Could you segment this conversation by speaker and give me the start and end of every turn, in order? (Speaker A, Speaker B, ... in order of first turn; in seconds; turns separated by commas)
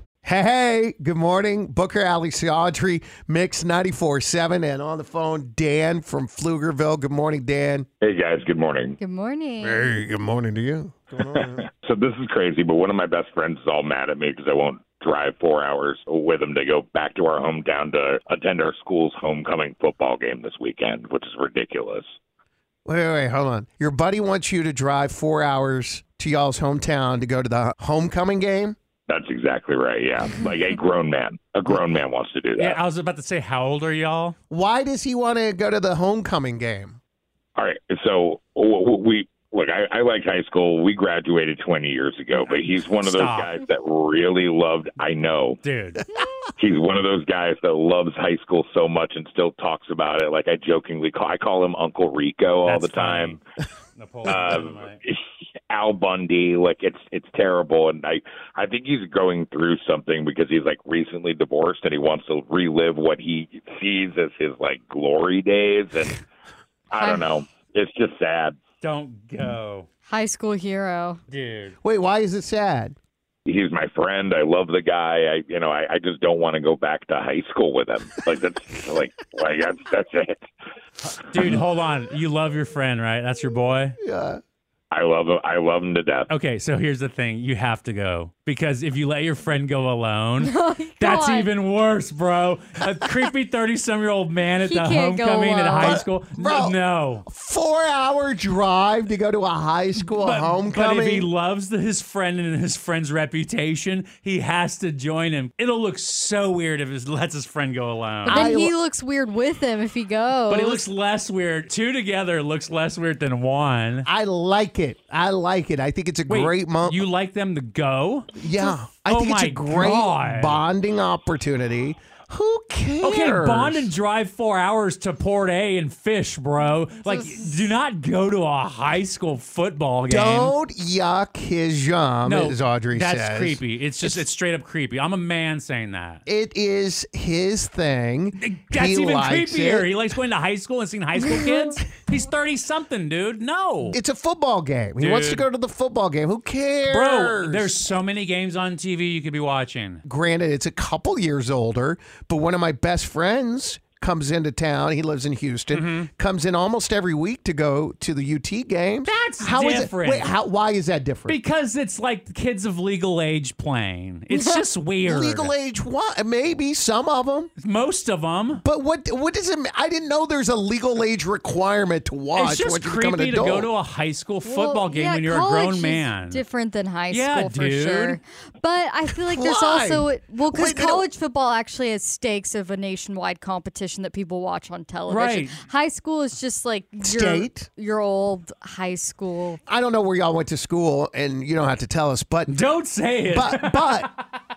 Speaker A: 0.2-7.9, Speaker B: 8.0-9.0, Speaker C: 9.0-9.9, Speaker A: 9.6-11.7, Speaker B: 11.3-22.1, Speaker A: 22.9-28.8, Speaker B: 29.1-32.8, Speaker D: 32.6-34.4, Speaker A: 34.5-37.0, Speaker B: 37.6-45.6, Speaker D: 43.0-43.5, Speaker D: 45.6-46.0, Speaker B: 46.6-53.4, Speaker D: 52.6-53.4, Speaker D: 54.0-55.0, Speaker B: 54.2-55.2, Speaker B: 55.7-66.2, Speaker B: 66.9-68.6, Speaker C: 66.9-67.3, Speaker D: 68.8-69.9, Speaker C: 70.1-71.2, Speaker D: 71.3-71.8, Speaker A: 71.8-73.0, Speaker B: 73.5-80.4, Speaker D: 81.0-84.0, Speaker A: 84.0-84.4, Speaker B: 84.9-86.3, Speaker D: 86.3-97.3, Speaker C: 90.4-91.5, Speaker C: 94.6-96.0, Speaker A: 95.8-101.3, Speaker D: 100.1-108.4, Speaker A: 108.3-108.7, Speaker C: 108.3-110.8, Speaker D: 110.5-114.1, Speaker A: 114.1-117.0, Speaker D: 116.3-118.3, Speaker A: 118.4-123.9, Speaker D: 119.0-120.6, Speaker D: 123.0-130.5, Speaker A: 130.1-134.2, Speaker D: 132.2-136.2, Speaker A: 136.3-139.9, Speaker D: 138.4-144.0, Speaker A: 143.9-147.7, Speaker D: 145.0-145.5, Speaker D: 146.8-150.0, Speaker A: 150.1-161.4, Speaker D: 155.7-156.1, Speaker D: 159.1-160.3, Speaker D: 161.3-165.5, Speaker C: 164.3-164.6, Speaker A: 165.1-167.5, Speaker D: 167.6-168.6, Speaker A: 168.6-173.7, Speaker D: 172.4-176.4, Speaker C: 174.4-189.6, Speaker D: 177.1-178.2, Speaker A: 179.2-181.1, Speaker D: 185.1-185.6, Speaker A: 187.0-187.7, Speaker A: 189.7-192.6, Speaker D: 192.5-194.1, Speaker A: 193.3-194.1